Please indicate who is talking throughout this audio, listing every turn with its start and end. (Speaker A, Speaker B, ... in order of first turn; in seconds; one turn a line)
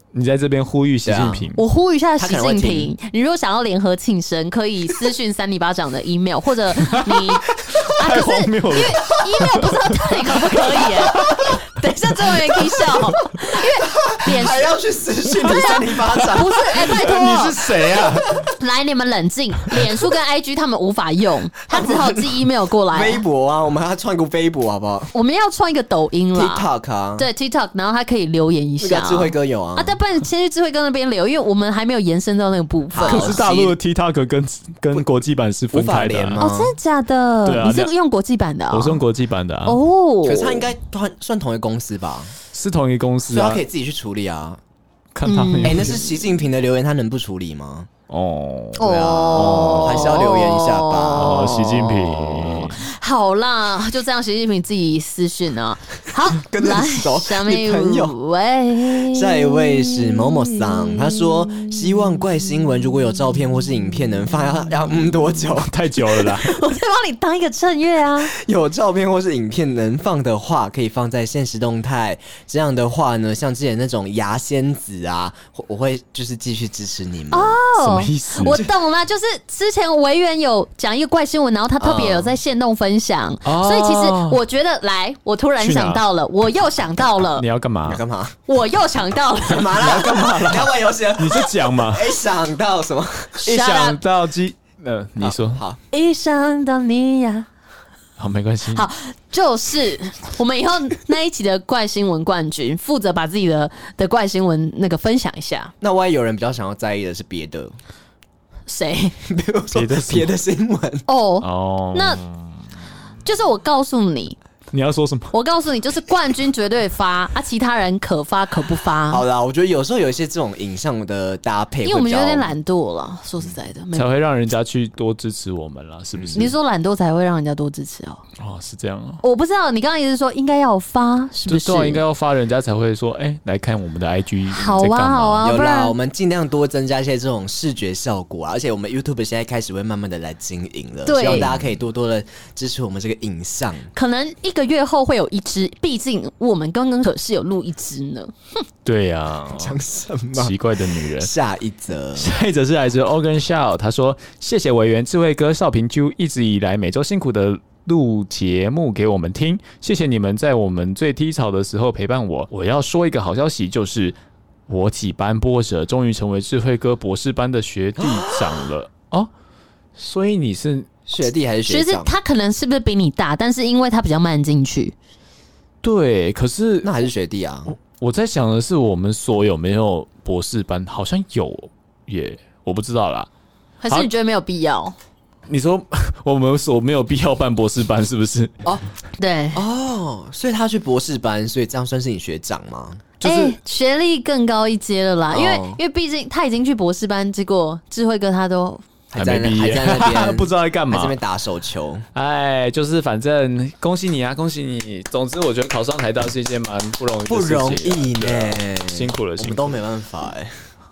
Speaker A: 0.1-1.6
Speaker B: 1.0-1.5
Speaker C: 1.6-14.7
Speaker B: 2.2-2.9
Speaker A: 6.8-7.2
Speaker A: 7.8-11.6
Speaker B: 11.1-11.6
Speaker B: 13.9-16.9
Speaker C: 15.4-17.7
Speaker A: 15.5-18.5
Speaker B: 17.8-18.5
Speaker C: 18.4-23.2
Speaker B: 21.7-22.4
Speaker B: 22.9-25.1
Speaker C: 25.1-33.5
Speaker B: 26.3-27.3
Speaker B: 28.8-29.9
Speaker B: 32.9-33.7
Speaker A: 33.1-36.4
Speaker B: 35.7-36.7
Speaker C: 36.4-39.0
Speaker A: 37.4-37.9
Speaker A: 38.7-39.8
Speaker C: 39.6-40.7
Speaker B: 40.2-42.3
Speaker A: 42.5-43.6
Speaker B: 43.3-44.6
Speaker A: 45.1-46.0
Speaker C: 45.2-46.1
Speaker B: 45.6-47.9
Speaker A: 48.1-48.8
Speaker C: 48.8-61.7
Speaker B: 48.8-51.5
Speaker A: 49.3-50.2
Speaker A: 51.1-52.8
Speaker B: 56.3-58.1
Speaker B: 59.1-65.7
Speaker A: 65.6-66.5
Speaker C: 66.2-68.3
Speaker B: 68.2-77.6
Speaker C: 77.3-87.4
Speaker A: 77.8-78.6
Speaker B: 81.8-82.4
Speaker A: 83.4-84.4
Speaker A: 85.6-86.0
Speaker A: 87.3-88.0
Speaker B: 87.8-88.4
Speaker C: 88.5-89.8
Speaker B: 89.4-93.4
Speaker A: 89.7-92.2
Speaker C: 93.4-94.0
Speaker A: 93.4-95.6
Speaker B: 95.2-95.8
Speaker C: 95.9-97.5
Speaker A: 98.2-98.8
Speaker C: 98.7-105.7
Speaker B: 105.8-107.8
Speaker C: 108.7-109.1
Speaker B: 109.2-111.0
Speaker A: 109.7-110.3
Speaker C: 111.1-112.2
Speaker A: 111.4-112.6
Speaker C: 113.2-114.4
Speaker A: 114.7-115.3
Speaker C: 115.3-119.2
Speaker B: 119.1-122.5
Speaker C: 121.8-124.1
Speaker A: 123.9-126.5
Speaker B: 126.2-126.4
Speaker C: 126.3-128.2
Speaker A: 128.4-129.2
Speaker C: 129.2-132.0
Speaker A: 131.5-135.4
Speaker C: 134.5-135.9
Speaker B: 135.4-143.9
Speaker C: 141.1-141.5
Speaker C: 143.9-148.3
Speaker A: 148.8-149.8
Speaker B: 149.5-150.6
Speaker A: 150.3-151.3
Speaker B: 151.2-152.3
Speaker A: 152.2-164.2
Speaker A: 164.7-169.3
Speaker B: 168.0-168.7
Speaker A: 170.0-170.9
Speaker B: 171.1-172.1
Speaker C: 171.7-174.9
Speaker A: 175.8-176.9
Speaker B: 176.8-177.7
Speaker A: 177.7-183.3
Speaker C: 183.8-184.9
Speaker A: 185.5-188.5
Speaker C: 189.2-189.6
Speaker B: 189.5-193.1
Speaker A: 193.2-193.6
Speaker C: 193.2-198.8
Speaker B: 195.3-195.8
Speaker B: 199.1-202.1
Speaker A: 199.2-201.2
Speaker A: 202.1-209.8
Speaker B: 207.3-210.5